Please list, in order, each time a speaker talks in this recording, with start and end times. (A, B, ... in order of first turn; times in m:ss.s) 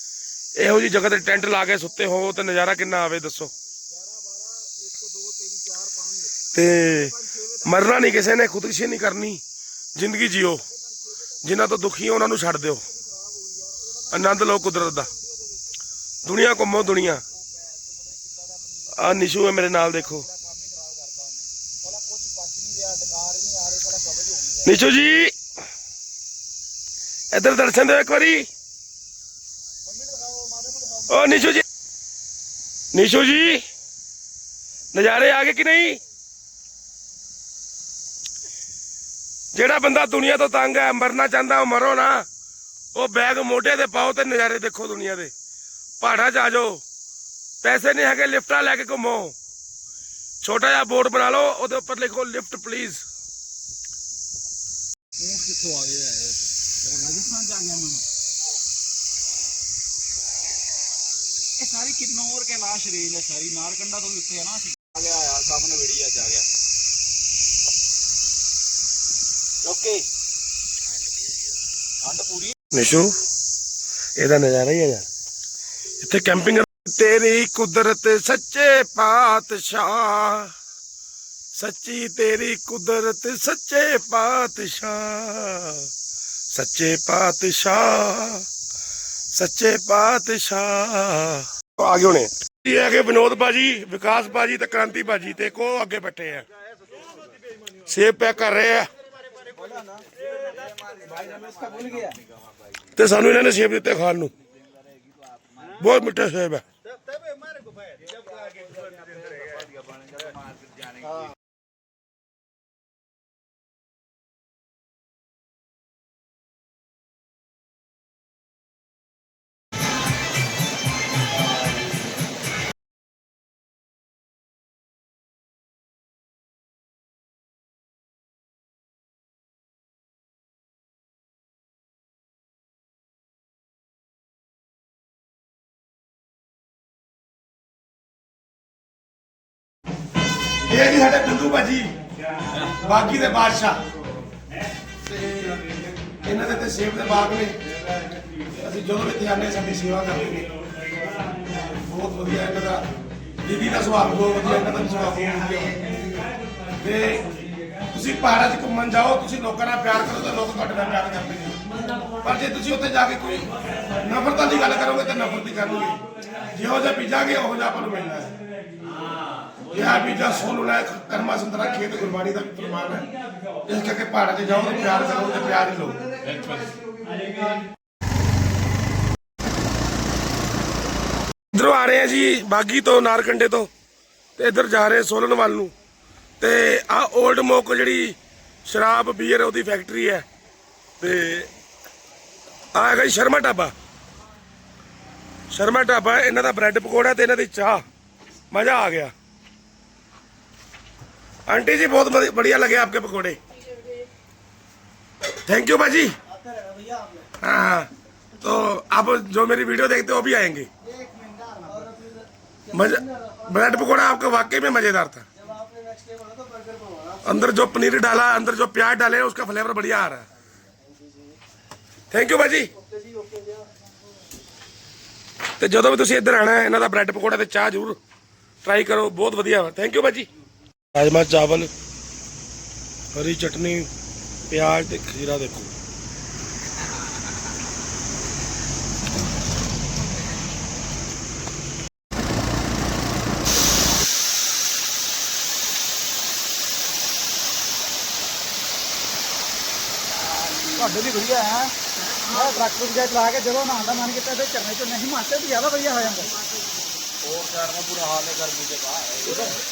0:00.6-0:03.5 A
0:05.2-0:06.3 B
0:06.5-0:09.4 A
0:10.0-0:10.6 A
0:11.4-0:12.8 A
0:14.1-0:15.1 A
0:16.2-0:17.2 A
0:18.9-0:20.3 A
0:20.3-0:24.7 B
0:24.5-0:25.4 A
0:27.3-0:28.5 A
0:30.0-0:30.8 B
0:31.0-0:31.6 A
0:32.9-0:33.6 A
0:34.9-0:36.0 A
0:39.5-0:42.3 A
0:43.0-0:45.3 A
0:46.0-0:46.8 A
0:47.6-0:49.4 A
0:50.4-0:53.0 A
0:55.2-0:58.0 B
1:01.6-1:06.4 B
1:09.6-1:10.1 B
1:12.1-1:12.5 B
1:12.7-1:13.1 A
1:14.2-1:15.1 A
1:16.0-1:20.5 A
1:21.6-1:25.9 A
1:26.5-1:28.5 A
1:29.3-1:36.4 A
1:37.9-1:38.9 A
1:39.6-1:42.2 B
1:42.9-1:44.3 A
1:45.7-1:46.6 A
2:20.6-2:21.9 A
2:22.6-2:23.8 A
2:25.2-2:25.6 A
2:26.2-2:27.6 A
2:28.5-2:30.5 A
2:31.5-2:32.9 A
2:33.4-2:35.9 A
2:36.8-2:37.3 A
2:37.9-2:48.4 A
2:49.7-2:53.1 A
2:53.6-2:56.6 A
3:01.5-3:03.7 A
3:04.4-3:05.7 A
3:06.4-3:10.2 A
3:11.0-3:11.5 A
3:12.7-3:13.7 A
3:15.5-3:17.8 A
3:18.5-3:19.1 A
3:21.5-3:24.0 A
3:25.4-3:26.2 A
3:26.5-3:27.2 B
3:27.4-3:27.9 A
3:28.4-3:30.7 A
3:31.1-3:32.1 B
3:32.7-3:35.3 A
3:35.6-3:37.1 B
3:37.2-3:40.3 A
3:42.1-3:42.7 A
3:43.2-3:43.4 B
3:45.6-3:48.0 A
3:48.6-3:50.3 A
3:50.9-3:51.7 A
3:53.1-3:53.9 A
3:54.5-3:55.7 A
4:10.6-4:16.4 B
4:17.2-4:19.6 B